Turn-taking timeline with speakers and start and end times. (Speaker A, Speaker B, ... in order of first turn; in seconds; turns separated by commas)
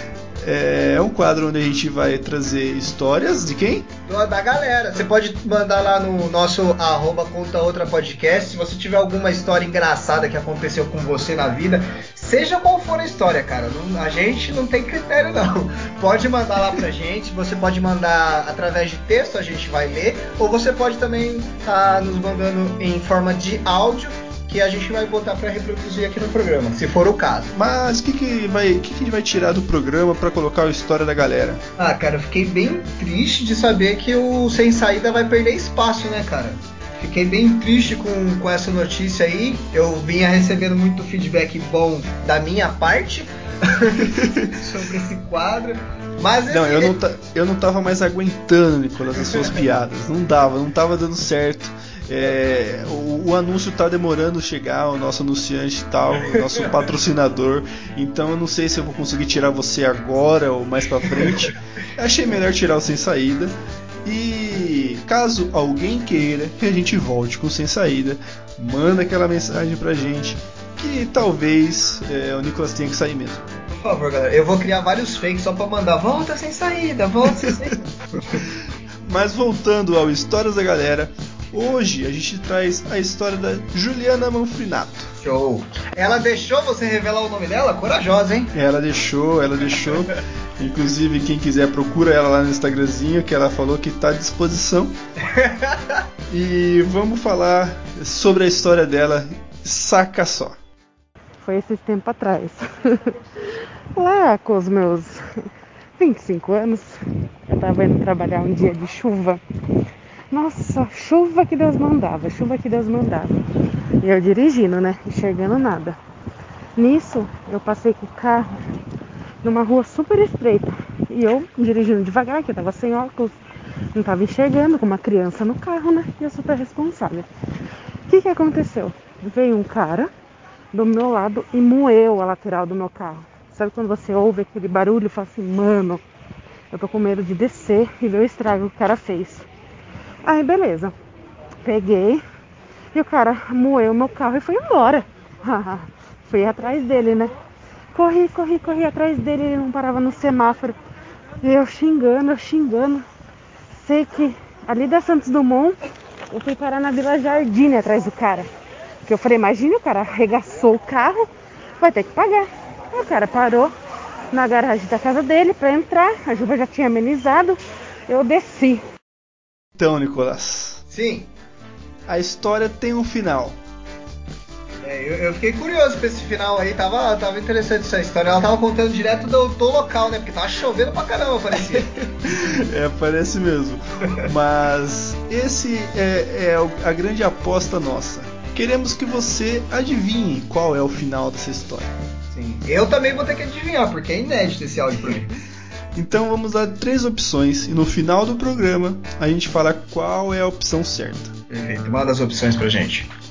Speaker A: 0.4-3.9, Speaker B: 4.1-27.5, Speaker A: 27.5-31.6, Speaker B: 31.8-47.0, Speaker A: 44.1-44.5, Speaker A: 46.5-73.5, Speaker B: 73.8-78.4, Speaker A: 78.4-85.1, Speaker B: 85.2-88.5, Speaker A: 88.5-95.0, Speaker B: 95.2-96.0, Speaker A: 96.3-100.6, Speaker C: 101.4-103.2, Speaker C: 104.0-105.4, Speaker C: 106.0-107.0, Speaker C: 107.5-109.4, Speaker C: 110.3-113.4, Speaker C: 114.0-116.0, Speaker C: 116.8-118.6, Speaker C: 119.4-123.3, Speaker C: 123.9-127.3, Speaker C: 128.1-130.1, Speaker C: 130.7-136.0, Speaker C: 136.7-139.5, Speaker C: 140.2-140.9, Speaker C: 141.7-142.2, Speaker C: 142.9-147.3, Speaker C: 147.9-150.8, Speaker C: 151.4-153.1, Speaker C: 153.8-155.8, Speaker C: 156.3-158.5, Speaker C: 159.1-161.3, Speaker C: 161.8-163.7, Speaker C: 164.3-168.8, Speaker A: 169.8-170.8, Speaker B: 170.9-171.3, Speaker A: 172.1-173.6, Speaker B: 174.8-181.9, Speaker A: 181.7-191.9, Speaker B: 192.3-195.3, Speaker A: 195.9-201.3, Speaker B: 201.5-203.1